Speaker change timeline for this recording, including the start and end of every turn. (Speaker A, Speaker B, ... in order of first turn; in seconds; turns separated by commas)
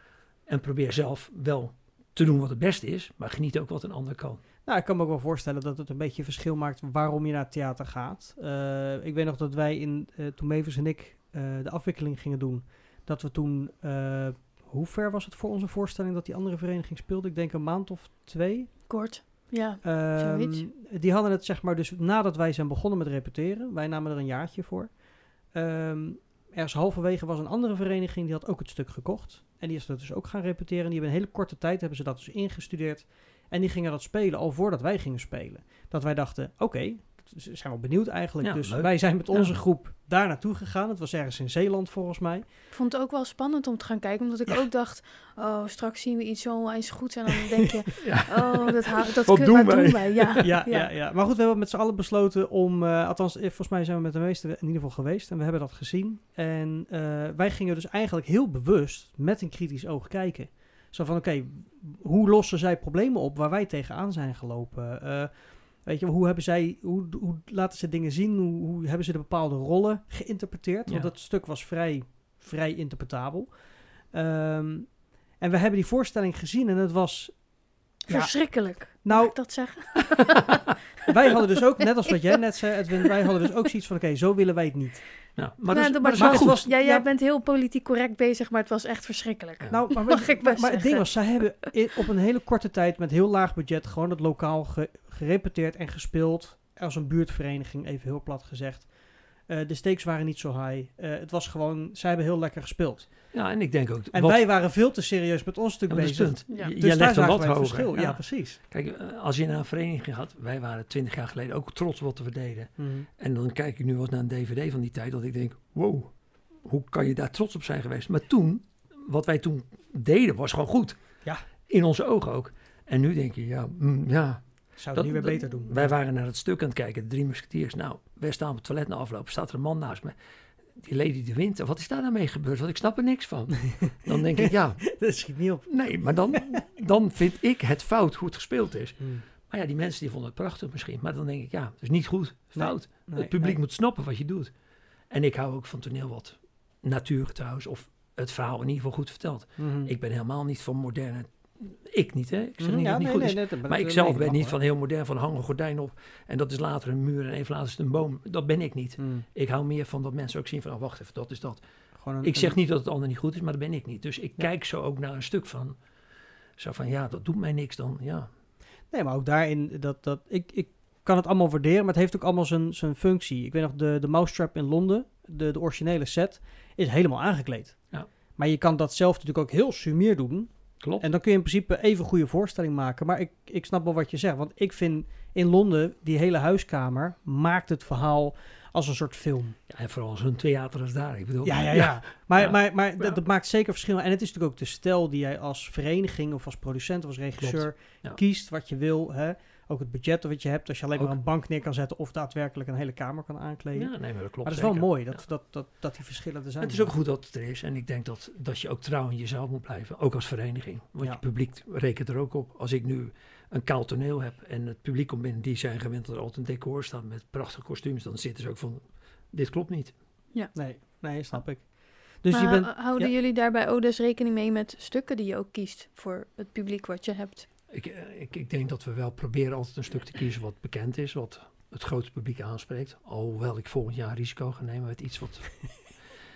Speaker A: 0.5-4.4, Speaker B: 4.6-18.8, Speaker C: 18.9-20.7, Speaker B: 19.8-42.5, Speaker A: 38.4-39.6, Speaker C: 42.7-50.9, Speaker A: 48.0-50.5, Speaker B: 50.4-79.4, Speaker A: 70.9-71.1, Speaker C: 78.1-80.6, Speaker B: 81.0-85.3, Speaker A: 85.3-86.6, Speaker C: 85.7-91.4, Speaker B: 86.1-87.0, Speaker B: 89.7-103.3, Speaker A: 103.3-104.5, Speaker B: 104.1-108.6, Speaker A: 105.9-121.0, Speaker C: 106.5-106.7, Speaker B: 112.8-113.1, Speaker A: 121.7-130.1, Speaker B: 124.8-126.0, Speaker A: 130.8-135.0, Speaker B: 133.8-136.6, Speaker A: 135.7-144.5, Speaker B: 139.0-139.2, Speaker B: 142.5-143.6, Speaker A: 145.1-161.6, Speaker B: 149.6-149.9, Speaker B: 152.6-154.6, Speaker B: 159.0-159.2, Speaker B: 161.9-162.5, Speaker A: 162.2-165.8, Speaker A: 166.6-168.3, Speaker B: 168.9-189.6, Speaker A: 180.8-181.1, Speaker A: 189.7-193.2, Speaker B: 191.4-206.9, Speaker A: 197.4-198.2, Speaker A: 203.7-205.2, Speaker A: 206.6-219.9, Speaker B: 220.5-223.1, Speaker C: 222.3-227.4, Speaker A: 227.7-235.9